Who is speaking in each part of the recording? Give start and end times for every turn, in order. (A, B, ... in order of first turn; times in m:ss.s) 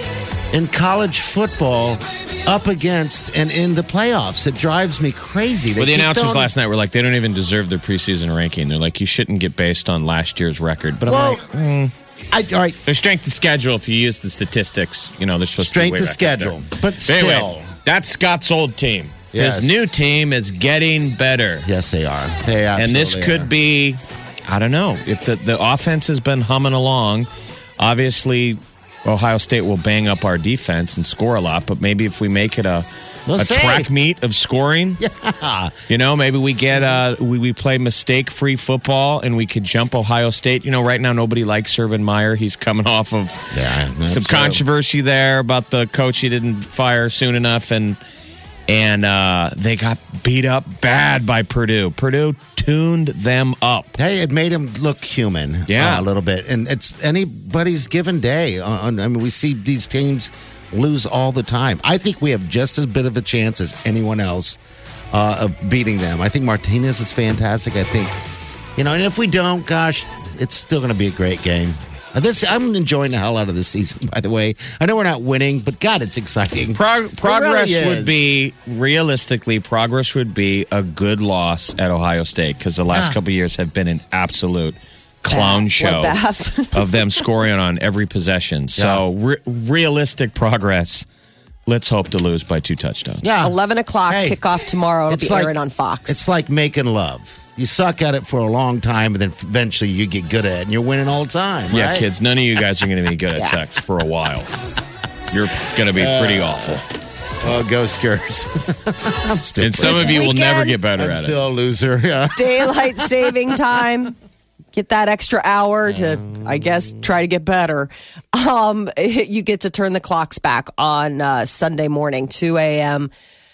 0:00.5-0:06.5 A
0:05.8-0:11.9 B
0:11.1-0:11.4 A
0:12.3-0:12.8 A
0:12.9-0:21.7 B
0:15.6-0:17.7 A
0:19.3-0:20.0 A
0:21.6-0:23.5 A
0:22.8-0:27.3 B
0:27.8-0:32.9 B
0:33.3-0:33.9 A
0:33.4-0:35.0 B
0:35.0-0:35.8 A
0:35.9-0:43.5 B
0:43.5-0:44.6 A
0:44.0-0:48.0 B
0:48.7-0:53.9 B
0:54.0-1:04.6 A
0:55.7-0:56.1 B
1:05.1-1:08.2 A
1:08.8-1:18.4 A
1:16.8-1:26.2 B
1:22.9-1:23.2 A
1:25.3-1:27.0 C
1:26.7-1:31.1 B
1:28.8-1:29.0 A
1:31.7-1:33.2 B
1:33.2-1:33.6 A
1:33.4-1:36.2 C
1:34.1-1:34.4 A
1:35.1-1:42.1 A
1:41.7-1:44.5 B
1:45.3-1:46.8 B
1:45.9-1:46.8 A
1:47.4-1:50.4 A
1:49.6-1:51.4 B
1:49.8-1:50.8 C
1:51.0-1:53.4 A
1:52.4-1:54.2 C
1:54.7-2:03.1 C
1:55.9-1:57.0 A